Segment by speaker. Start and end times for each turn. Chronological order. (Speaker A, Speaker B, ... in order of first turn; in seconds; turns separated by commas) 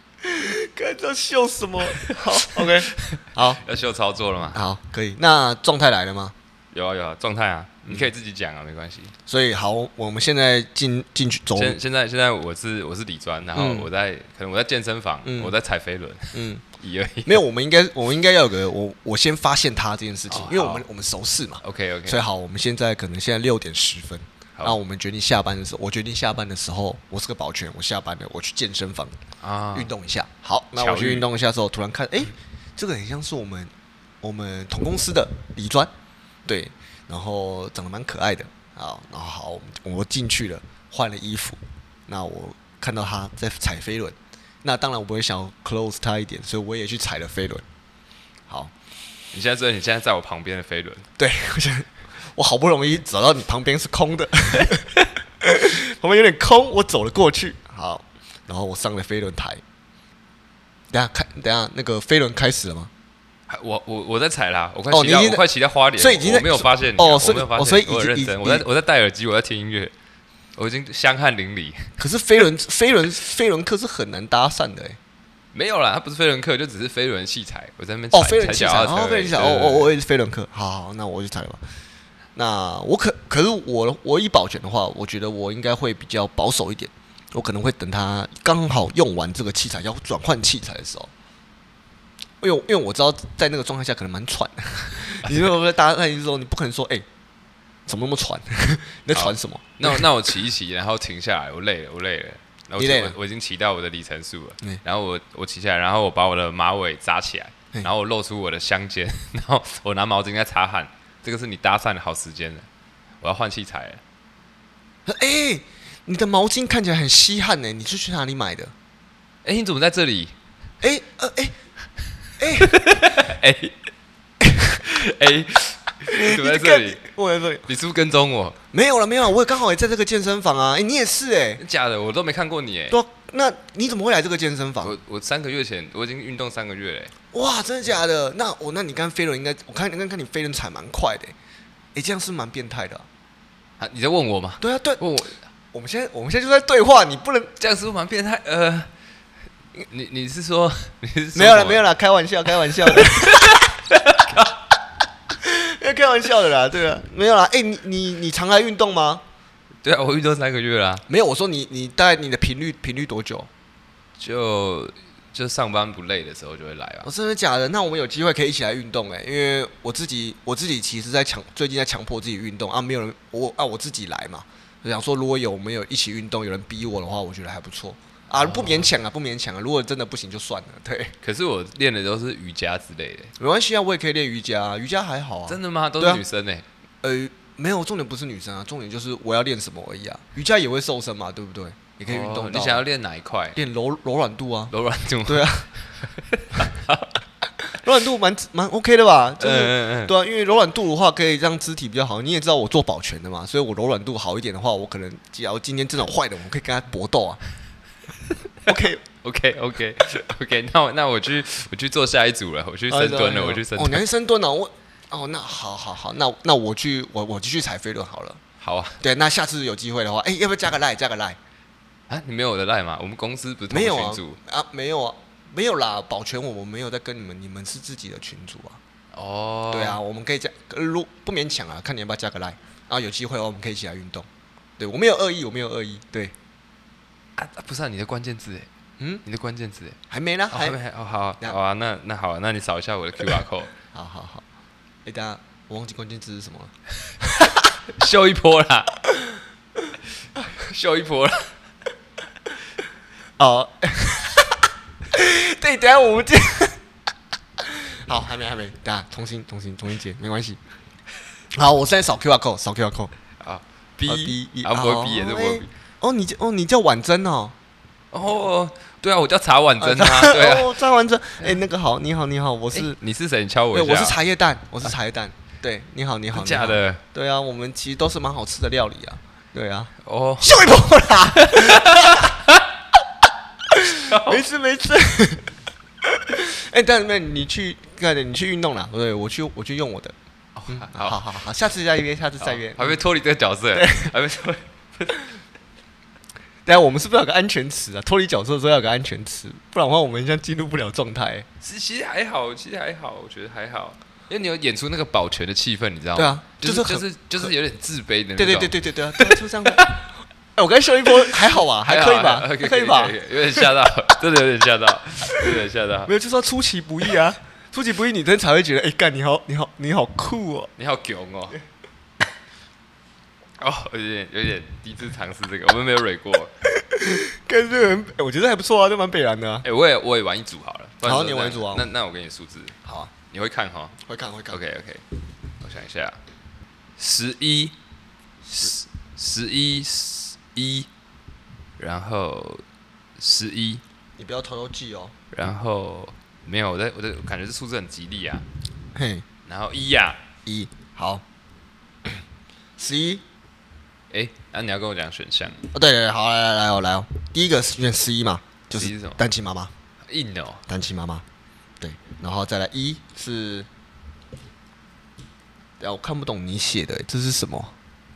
Speaker A: 0.2-3.6, Speaker B: 2.5-4.6, Speaker A: 4.5-6.3, Speaker B: 6.7-9.1, Speaker A: 9.3-11.8, Speaker B: 11.6-17.4, Speaker A: 13.6-13.9, Speaker A: 15.2-15.6, Speaker A: 16.3-16.6, Speaker A: 17.2-29.2, Speaker B: 20.3-20.9, Speaker B: 21.6-22.2, Speaker B: 29.4-29.9, Speaker A: 29.7-35.9, Speaker B: 30.8-31.3, Speaker A: 36.5-47.6, Speaker A: 48.5-48.7, Speaker B: 49.3-51.1, Speaker A: 51.2-59.6, Speaker A: 60.9-62.9, Speaker B: 63.5-69.9, Speaker A: 64.9-65.4, Speaker A: 66.0-68.6, Speaker B: 70.6-72.0, Speaker A: 72.0-75.0, Speaker B: 75.5-79.9, Speaker A: 78.1-81.6, Speaker A: 82.3-91.1, Speaker A: 92.4-97.1, Speaker A: 97.9-100.0, Speaker B: 99.1-112.7, Speaker A: 102.8-103.1, Speaker B: 113.2-114.0, Speaker A: 115.1-118.7, Speaker B: 119.4-120.3, Speaker A: 120.8-121.5, Speaker A: 122.4-122.8, Speaker B: 122.4-123.8, Speaker A: 124.4-124.8, Speaker B: 124.8-127.0, Speaker A: 126.1-127.7, Speaker B: 127.7-128.6, Speaker A: 128.7-131.6, Speaker B: 131.6-133.0, Speaker A: 132.9-135.0, Speaker B: 134.8-137.1, Speaker A: 137.3-141.3, Speaker A: 141.9-143.1, Speaker B: 143.8-145.4, Speaker A: 144.6-145.1, Speaker A: 145.7-147.5, Speaker B: 147.6-148.9, Speaker B: 149.9-151.8, Speaker A: 151.3-153.6, Speaker B: 152.8-154.6, Speaker A: 155.4-159.2, Speaker B: 159.8-161.1, Speaker A: 161.1-163.5, Speaker B: 164.2-167.1, Speaker A: 167.0-181.1, Speaker B: 178.4-178.9, Speaker B: 181.2-183.3, Speaker A: 183.4-186.2, Speaker B: 185.5-186.6, Speaker A: 187.0-192.8, Speaker B: 192.1-193.6, Speaker A: 193.6-194.7, Speaker B: 194.7-197.2, Speaker A: 195.2-195.7, Speaker A: 197.6-207.4, Speaker B: 199.4-200.1, Speaker A: 208.6-209.0, Speaker B: 209.2-214.1, Speaker A: 212.9-218.4, Speaker B: 218.6-219.0, Speaker A: 219.0-221.4, Speaker B: 222.1-224.4, Speaker A: 223.7-228.8, Speaker B: 229.1-230.0, Speaker A: 229.7-234.3, Speaker A: 234.8-236.3, Speaker B: 237.4-238.7, Speaker B: 239.2-240.0, Speaker A: 240.1-240.8, Speaker B: 240.5-243.7, Speaker A: 243.9-244.4, Speaker A: 245.1-247.6, Speaker B: 247.8-248.9, Speaker A: 249.1-249.4, Speaker B: 250.5-251.5, Speaker A: 253.4-256.8, Speaker A: 257.6-260.6, Speaker A: 261.5-263.1, Speaker B: 263.4-265.7, Speaker A: 264.1-267.6, Speaker B: 268.1-270.8, Speaker A: 269.8-273.0, Speaker B: 272.7-274.2, Speaker A: 273.7-282.4, Speaker B: 276.3-277.0, Speaker B: 280.0-280.6, Speaker B: 281.3-282.6, Speaker A: 283.7-290.1, Speaker B: 284.1-284.4, Speaker B: 290.6-291.2, Speaker A: 290.7-293.0, Speaker B: 292.4-295.2, Speaker A: 293.8-294.1, Speaker A: 296.6-301.5, Speaker B: 301.6-310.0, Speaker A: 306.1-307.5, Speaker A: 308.4-310.1, Speaker A: 310.6-313.6, Speaker B: 311.8-316.1, Speaker A: 316.1-320.7, Speaker B: 320.8-321.6, Speaker B: 323.6-326.5, Speaker A: 326.6-329.6, Speaker B: 329.6-332.8, Speaker A: 331.0-331.9, Speaker A: 332.9-333.1, Speaker B: 333.3-334.0, Speaker A: 334.1-334.6, Speaker B: 334.5-335.0, Speaker B: 335.6-336.2, Speaker B: 337.0-337.8, Speaker B: 338.5-340.9, Speaker B: 341.8-342.6, Speaker B: 343.2-343.8, Speaker A: 344.2-345.1, Speaker B: 345.3-348.4, Speaker A: 348.9-349.2, Speaker B: 349.5-350.2, Speaker A: 350.4-351.2, Speaker A: 352.8-353.2, Speaker B: 354.1-355.7, Speaker A: 355.7-359.7, Speaker B: 358.7-359.2, Speaker B: 360.1-360.6, Speaker A: 360.7-361.2, Speaker A: 361.8-363.7, Speaker A: 365.8-367.7